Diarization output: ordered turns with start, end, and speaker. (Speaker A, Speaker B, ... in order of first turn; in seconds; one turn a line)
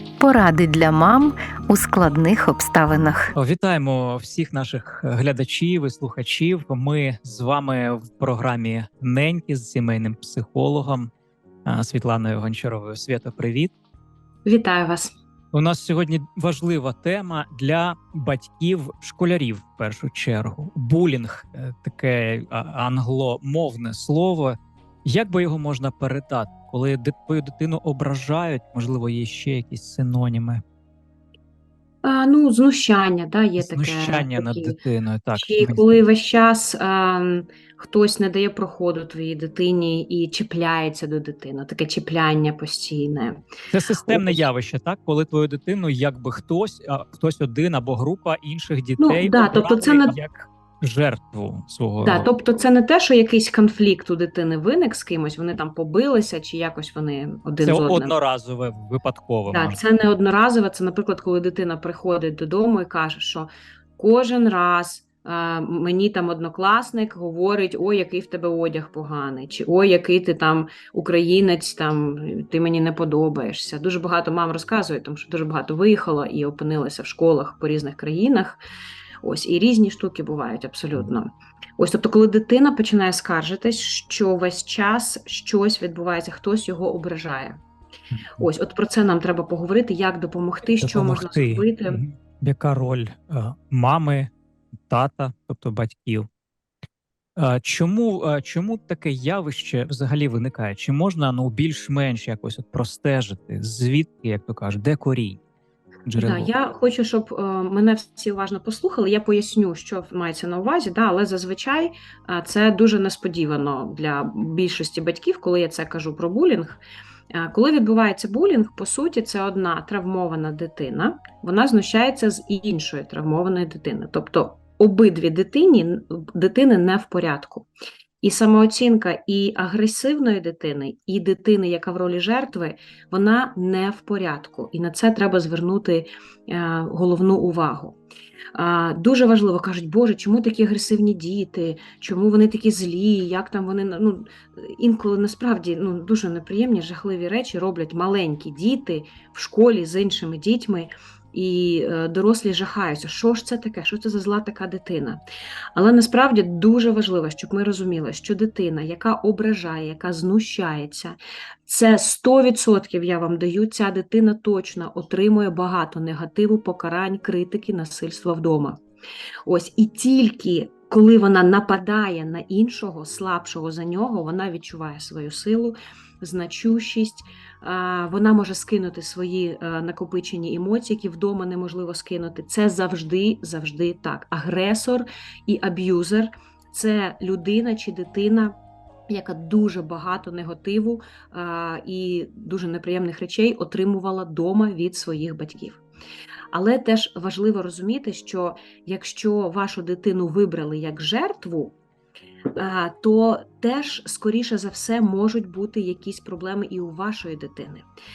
Speaker A: 0.2-3.3
Speaker B: 3.3-11.1
Speaker B: 11.6-13.7
Speaker C: 14.4-15.1
Speaker B: 15.5-30.6
Speaker C: 32.0-34.8
Speaker B: 33.6-36.0
Speaker C: 35.3-43.4
Speaker B: 43.7-52.3
Speaker C: 44.0-44.4
Speaker C: 49.0-50.1
Speaker C: 52.0-58.1
Speaker B: 57.6-59.8
Speaker C: 59.5-78.6
Speaker C: 79.2-87.6
Speaker C: 88.4-92.0
Speaker B: 90.8-94.3
Speaker B: 94.9-96.3
Speaker B: 97.3-105.4
Speaker B: 106.0-106.5
Speaker C: 106.2-116.8
Speaker C: 117.3-127.7
Speaker C: 128.2-138.0
Speaker C: 138.5-155.2
Speaker C: 155.7-161.1
Speaker C: 161.7-168.8
Speaker C: 169.4-188.5
Speaker C: 189.1-195.8
Speaker C: 196.5-201.8
Speaker C: 202.6-207.8